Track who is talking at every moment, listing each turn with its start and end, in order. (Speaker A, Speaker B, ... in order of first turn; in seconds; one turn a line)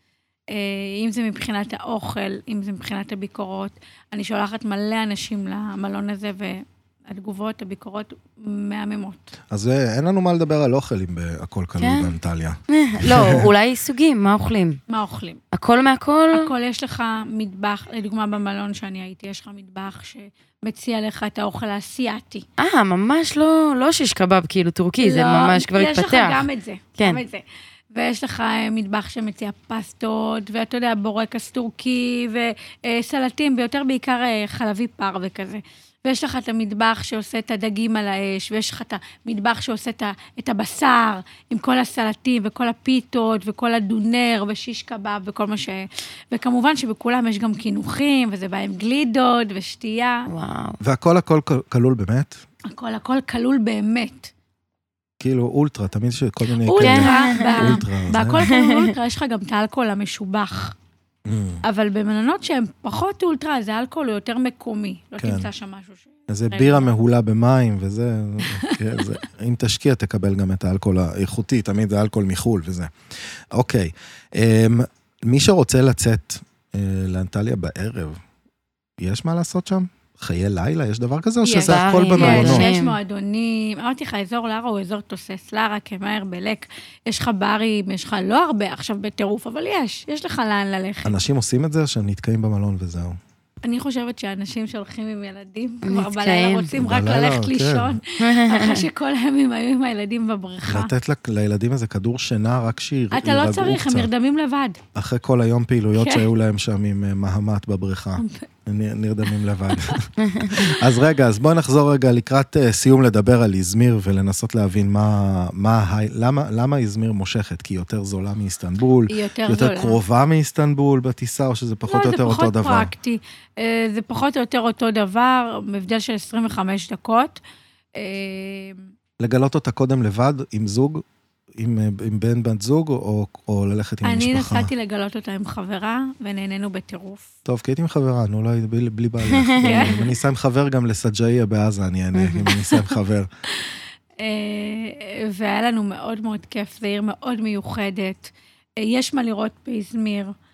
Speaker A: 0.5-9.2
Speaker B: 9.5-13.5
Speaker C: 11.8-12.1
Speaker C: 12.7-14.8
Speaker A: 14.9-15.4
Speaker C: 15.5-16.5
Speaker A: 16.3-22.4
Speaker C: 22.6-27.2
Speaker A: 25.0-50.3
Speaker C: 50.3-50.8
Speaker B: 50.8-52.4
Speaker A: 52.7-54.3
Speaker B: 55.2-58.5
Speaker A: 56.7-60.8
Speaker C: 56.8-57.8
Speaker C: 58.4-58.9
Speaker B: 61.2-61.6
Speaker A: 61.6-66.9
Speaker B: 65.2-65.5
Speaker B: 66.3-72.9
Speaker A: 68.6-69.0
Speaker B: 73.5-78.2
Speaker B: 79.0-82.7
Speaker A: 81.4-91.1
Speaker C: 81.5-83.0
Speaker B: 91.0-93.2
Speaker A: 93.6-100.9
Speaker C: 95.8-96.7
Speaker B: 96.8-98.0
Speaker C: 98.2-98.8
Speaker B: 100.7-104.1
Speaker A: 103.1-104.8
Speaker B: 104.9-122.9
Speaker A: 106.0-106.3
Speaker A: 108.2-108.4
Speaker A: 109.7-110.0
Speaker C: 110.2-110.5
Speaker A: 119.1-120.0
Speaker A: 121.8-127.4
Speaker A: 127.9-128.8
Speaker B: 129.2-131.0
Speaker B: 131.5-134.7
Speaker A: 134.0-137.3
Speaker B: 137.4-143.3
Speaker C: 139.2-140.0
Speaker A: 139.6-140.1
Speaker C: 142.1-142.5
Speaker A: 142.4-142.9
Speaker A: 143.5-150.3